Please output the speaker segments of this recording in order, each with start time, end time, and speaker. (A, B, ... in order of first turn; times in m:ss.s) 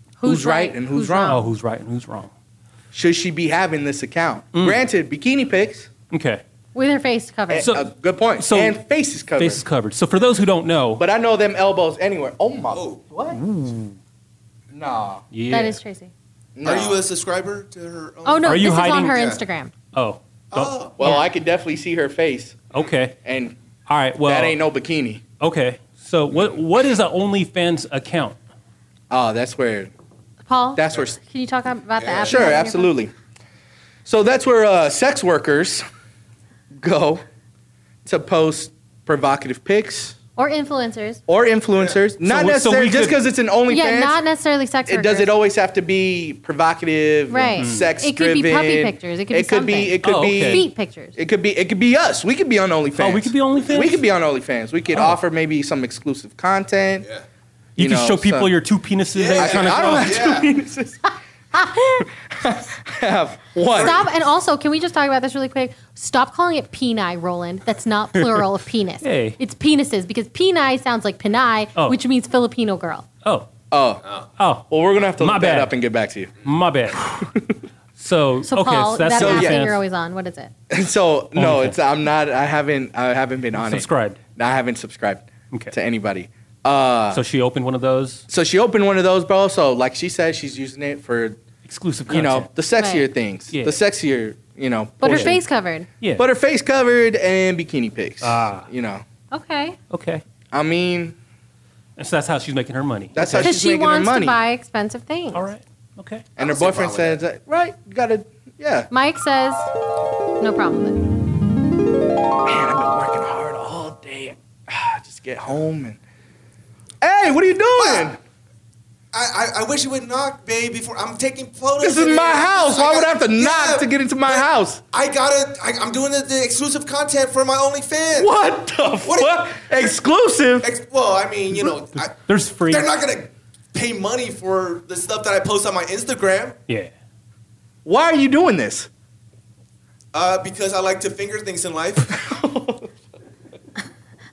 0:00.2-0:01.4 A
0:00.2-0:01.4 B
0:01.3-0:02.3 C
0:02.9-0:05.9 B
0:04.5-0:04.8 C
0:06.1-0:06.4 C
0:06.7-0:07.7 A
0:07.5-0:09.6 B
0:07.6-0:08.8 C
0:09.3-0:11.0 C
0:11.0-0:13.4 B
0:12.7-0:13.0 D
0:13.3-0:14.0 C
0:14.7-0:15.2 B
0:15.3-0:15.8 C
0:15.5-0:16.1 A
0:16.6-0:17.0 B
0:16.6-0:19.4 D
0:18.2-0:19.7 A
0:18.4-0:19.2 C
0:19.9-0:20.7 C
0:20.5-0:21.0 D
0:21.0-0:22.6 B
0:21.0-0:21.3 A
0:22.7-0:23.2 C
0:23.2-0:23.5 B
0:23.9-0:24.6 C
0:24.2-0:25.2 B
0:25.4-0:28.4 C
0:29.1-0:29.9 B
0:30.4-0:32.9 A
0:30.8-0:31.2 B
0:32.0-0:32.6 D
0:32.2-0:33.1 B
0:34.0-0:35.8 B
0:36.8-0:37.2 B
0:38.0-0:40.2 B
0:40.4-0:41.2 A
0:41.3-0:44.2 B
0:42.2-0:43.2 C
0:43.7-0:45.3 A
0:44.8-0:57.1 B
0:47.3-0:51.1 A
0:47.6-0:47.9 C
0:50.0-0:50.6 C
0:53.0-0:54.0 C
0:54.9-0:55.2 C
0:57.8-1:00.3 C
0:57.8-0:58.5 B
0:59.1-1:00.5 D
0:59.3-1:01.0 B
1:01.5-1:02.1 A
1:02.0-1:04.0 B
1:03.7-1:04.1 D
1:03.8-1:13.0 A
1:08.2-1:08.4 C
1:09.0-1:09.4 C
1:13.7-1:14.0 B
1:14.4-1:15.8 C
1:14.7-1:16.3 B
1:16.4-1:17.1 C
1:17.0-1:17.5 B
1:18.0-1:19.8 C
1:18.5-1:20.5 A
1:19.1-1:19.6 B
1:20.7-1:27.2 B
1:21.3-1:21.8 C
1:23.5-1:24.2 C
1:27.1-1:28.2 C
1:28.3-1:31.4 B
1:31.7-1:32.5 C
1:32.1-1:35.4 B
1:32.8-1:33.0 A
1:33.5-1:33.8 C
1:35.0-1:35.9 A
1:35.0-1:35.4 C
1:36.0-1:36.2 C
1:36.2-1:39.0 B
1:38.2-1:38.7 C
1:39.3-1:39.8 A
1:39.9-1:40.2 C
1:40.5-1:41.2 B
1:42.0-1:43.5 C
1:43.1-1:44.4 B
1:43.3-1:45.4 A
1:45.3-1:46.3 C
1:46.4-1:48.9 B
1:46.4-1:47.2 D
1:48.9-1:49.6 A
1:50.4-1:51.0 A
1:52.4-1:56.0 B
1:57.0-1:58.2 B
1:57.8-1:58.1 D
1:59.1-2:08.3 D
2:01.8-2:04.8 B
2:08.2-2:10.7 B
2:09.0-2:09.7 D
2:10.6-2:16.6 D
2:12.0-2:12.9 C
2:17.8-2:18.9 B
2:20.1-2:22.1 D
2:22.1-2:22.9 B